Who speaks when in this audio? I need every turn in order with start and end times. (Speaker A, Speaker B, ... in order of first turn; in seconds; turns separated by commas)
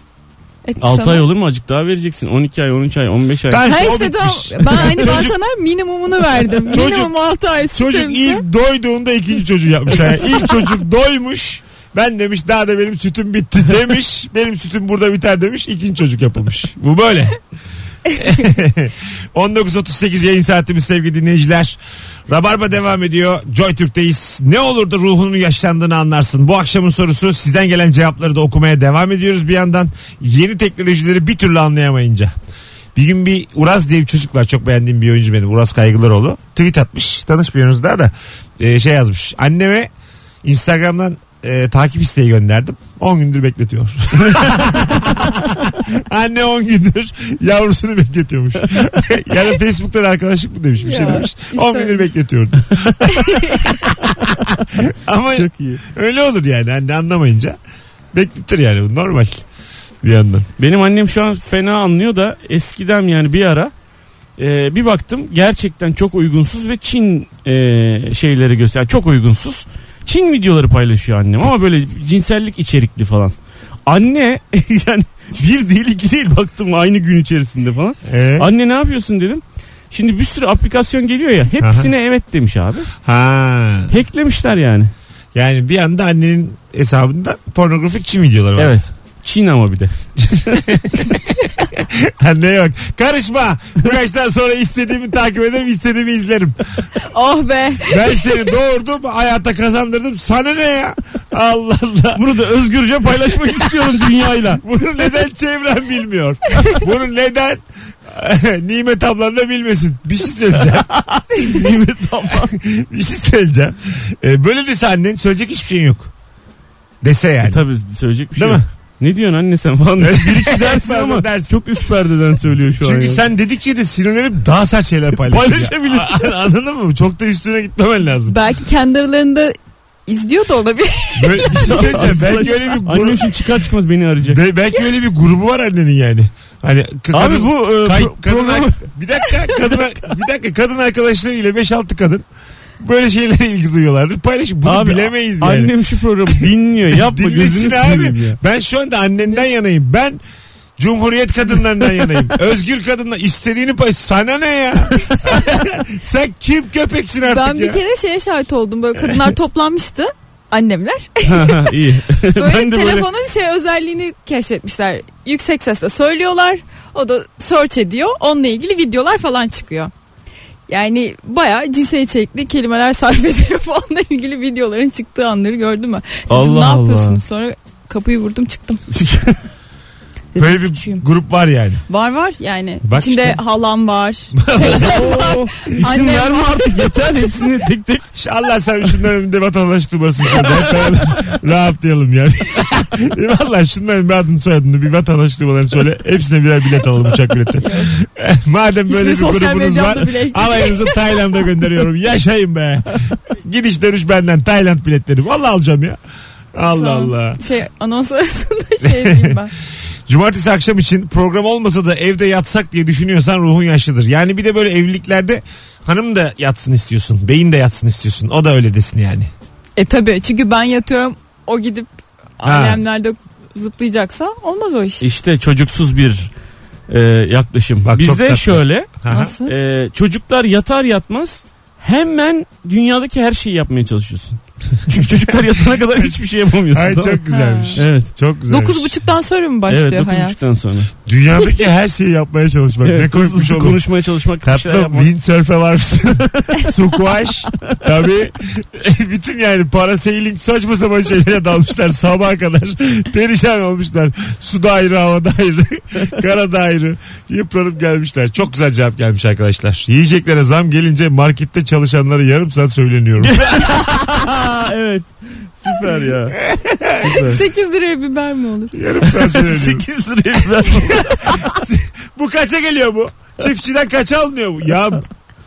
Speaker A: 0.6-1.3, Speaker B: 0.8-3.9, Speaker C: 3.5-5.3, Speaker A: 3.6-8.4, Speaker B: 4.7-5.2, Speaker C: 6.7-7.1, Speaker C: 7.7-17.4, Speaker C: 18.1-32.3, Speaker C: 32.9-39.9, Speaker C: 40.4-57.6, Speaker A: 50.8-52.1, Speaker A: 53.3-53.6, Speaker B: 55.3-55.8, Speaker C: 58.1-59.4, Speaker C: 60.0-60.5, Speaker B: 60.6-63.7, Speaker B: 64.4-73.3, Speaker B: 73.9-82.9, Speaker C: 78.0-78.5, Speaker C: 81.6-81.9, Speaker C: 83.0-83.9, Speaker B: 83.9-84.9, Speaker C: 85.3-88.8, Speaker B: 88.6-89.9, Speaker C: 90.2-96.6, Speaker A: 97.1-98.4, Speaker C: 97.9-102.2, Speaker B: 102.2-104.6, Speaker C: 103.3-110.9, Speaker B: 110.7-112.5, Speaker C: 112.3-116.1, Speaker C: 117.0-117.6, Speaker B: 117.4-123.2, Speaker C: 118.3-118.6, Speaker C: 120.0-121.6, Speaker C: 122.8-128.4, Speaker B: 125.2-126.3, Speaker A: 128.3-129.5, Speaker A: 130.1-132.0, Speaker C: 131.2-133.5, Speaker B: 131.5-134.4, Speaker C: 134.2-142.2, Speaker B: 137.1-138.8, Speaker C: 142.8-145.7, Speaker B: 144.6-148.4, Speaker C: 146.3-150.2, Speaker C: 150.8-157.8, Speaker A: 157.2-161.7, Speaker C: 159.0-159.3, Speaker B: 161.2-163.1, Speaker A: 162.3-169.9, Speaker A: 170.7-178.8, Speaker B: 176.3-177.2, Speaker B: 178.9-179.4, Speaker A: 180.3-181.0, Speaker C: 180.4-181.8, Speaker A: 181.9-187.2, Speaker C: 182.8-183.4, Speaker C: 184.3-185.2, Speaker B: 184.7-188.0, Speaker C: 188.2-206.0, Speaker A: 197.6-197.9, Speaker A: 198.9-201.0, Speaker C: 206.5-207.4, Speaker A: 206.7-209.5, Speaker C: 208.8-209.4, Speaker C: 210.1-219.3, Speaker A: 219.8-225.0, Speaker C: 222.4-222.8, Speaker B: 225.0-226.3, Speaker B: 226.9-237.2, Speaker C: 227.8-229.3, Speaker A: 229.1-229.5, Speaker C: 234.9-235.4, Speaker C: 236.7-239.0, Speaker A: 237.3-237.8, Speaker B: 237.8-238.1, Speaker A: 238.5-240.4, Speaker B: 239.7-240.9, Speaker C: 241.1-243.8, Speaker B: 242.8-245.1, Speaker C: 244.4-264.2, Speaker B: 263.2-266.4, Speaker C: 265.8-267.3, Speaker B: 267.0-267.4, Speaker A: 267.2-268.7, Speaker C: 268.7-269.8, Speaker B: 269.0-271.5, Speaker C: 270.7-275.0